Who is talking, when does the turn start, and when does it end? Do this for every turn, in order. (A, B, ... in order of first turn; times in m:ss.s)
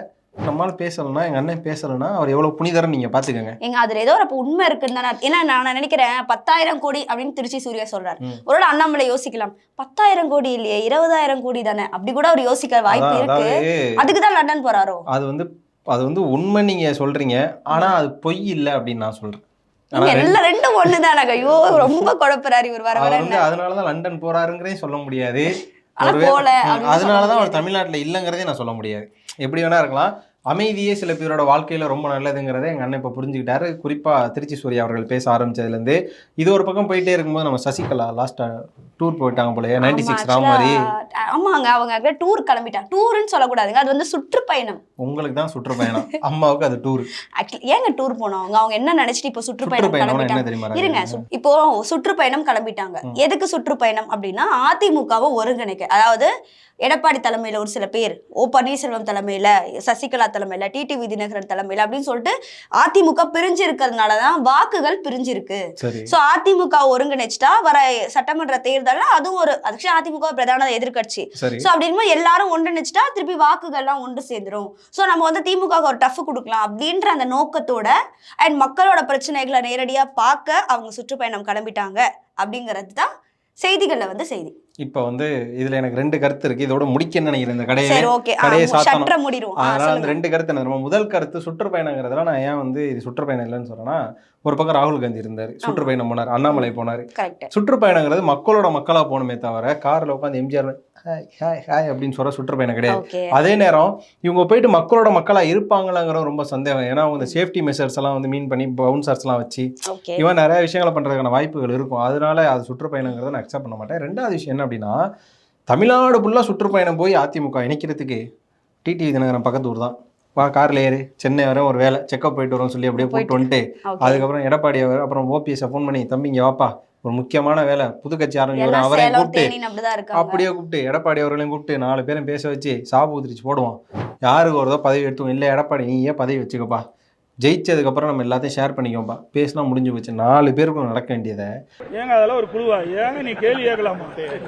0:00.4-0:03.5 A
0:03.6-0:15.0 B
0:12.9-0:13.8 A
0:15.1-0:19.4 A
0:20.0-0:22.0 A
0:20.0-0:23.4 B
0:23.0-0:40.9 A
0:26.0-0:27.6 B
0:39.8-0:44.8 B
0:45.0-0:47.1 A
0:47.4-0:56.3 B
0:49.6-0:51.2 A
0:56.8-1:23.1 B
1:05.8-1:06.1 A
1:11.4-1:11.7 A
1:23.6-1:24.5 B
1:24.8-1:55.0 A
1:27.8-1:30.2 B
1:35.6-1:35.9 B
1:36.5-1:37.5 B
1:42.9-1:43.3 B
1:49.9-1:50.2 B
1:55.7-1:58.2 A
1:58.8-2:09.5 A
2:03.0-2:04.2 B
2:08.6-2:10.5 B
2:10.1-2:16.8 A
2:17.4-2:21.5 A
2:22.0-2:24.3 C